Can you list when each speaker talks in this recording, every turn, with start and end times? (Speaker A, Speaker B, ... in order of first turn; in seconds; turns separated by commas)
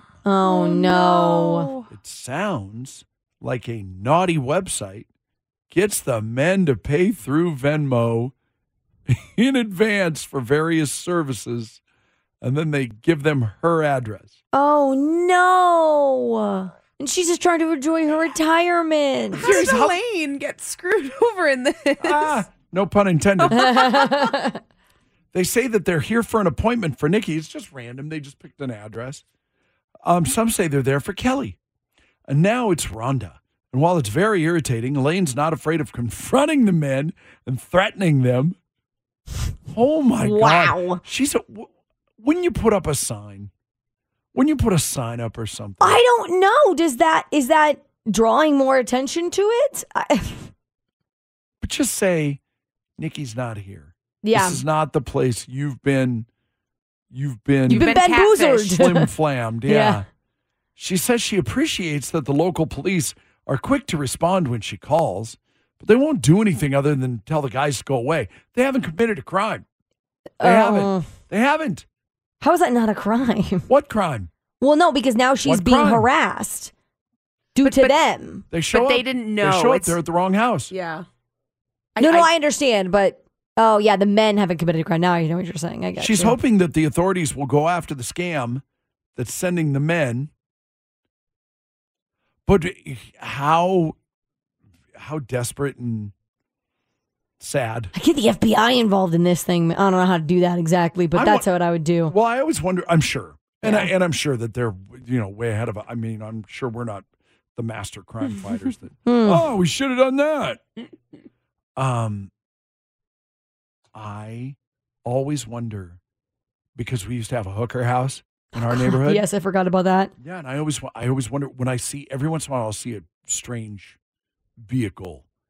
Speaker A: 0.2-1.7, Speaker B: 0.5-1.9, Speaker C: 1.9-5.1, Speaker C: 5.7-8.3, Speaker C: 9.1-11.8, Speaker C: 12.4-14.4, Speaker A: 14.5-19.6, Speaker B: 19.4-22.5, Speaker C: 19.4-20.0, Speaker C: 22.0-24.0, Speaker B: 23.4-24.3, Speaker A: 23.5-24.6, Speaker C: 25.3-29.2, Speaker C: 30.1-31.6, Speaker C: 32.3-38.6, Speaker C: 39.7-41.7, Speaker A: 40.2-41.0, Speaker C: 42.2-43.5, Speaker C: 44.3-46.0, Speaker A: 45.8-50.5, Speaker C: 51.6-52.4, Speaker C: 53.0-56.3, Speaker A: 54.2-54.6, Speaker C: 57.1-58.0, Speaker B: 57.7-58.7, Speaker A: 57.7-59.1, Speaker C: 58.7-60.0, Speaker A: 59.6-60.0, Speaker C: 60.8-69.6, Speaker A: 70.4-71.1, Speaker C: 70.4-71.8, Speaker A: 72.4-73.7, Speaker C: 73.7-74.3, Speaker A: 74.6-76.7, Speaker C: 75.4-76.1, Speaker A: 77.5-78.5, Speaker B: 77.6-77.9, Speaker C: 78.5-80.7, Speaker B: 78.7-80.0, Speaker B: 80.7-81.0, Speaker B: 82.0-82.3, Speaker A: 82.0-86.4, Speaker C: 86.0-88.6, Speaker C: 89.2-90.3, Speaker C: 92.5-93.9, Speaker C: 95.0-96.1, Speaker C: 97.4-97.9, Speaker A: 97.9-102.1, Speaker C: 101.1-101.5, Speaker C: 102.0-110.6, Speaker A: 103.6-103.9, Speaker A: 109.0-109.4, Speaker C: 111.8-112.3, Speaker C: 113.9-116.0, Speaker C: 116.8-119.2, Speaker A: 118.7-120.1, Speaker C: 120.2-124.0, Speaker C: 124.6-125.2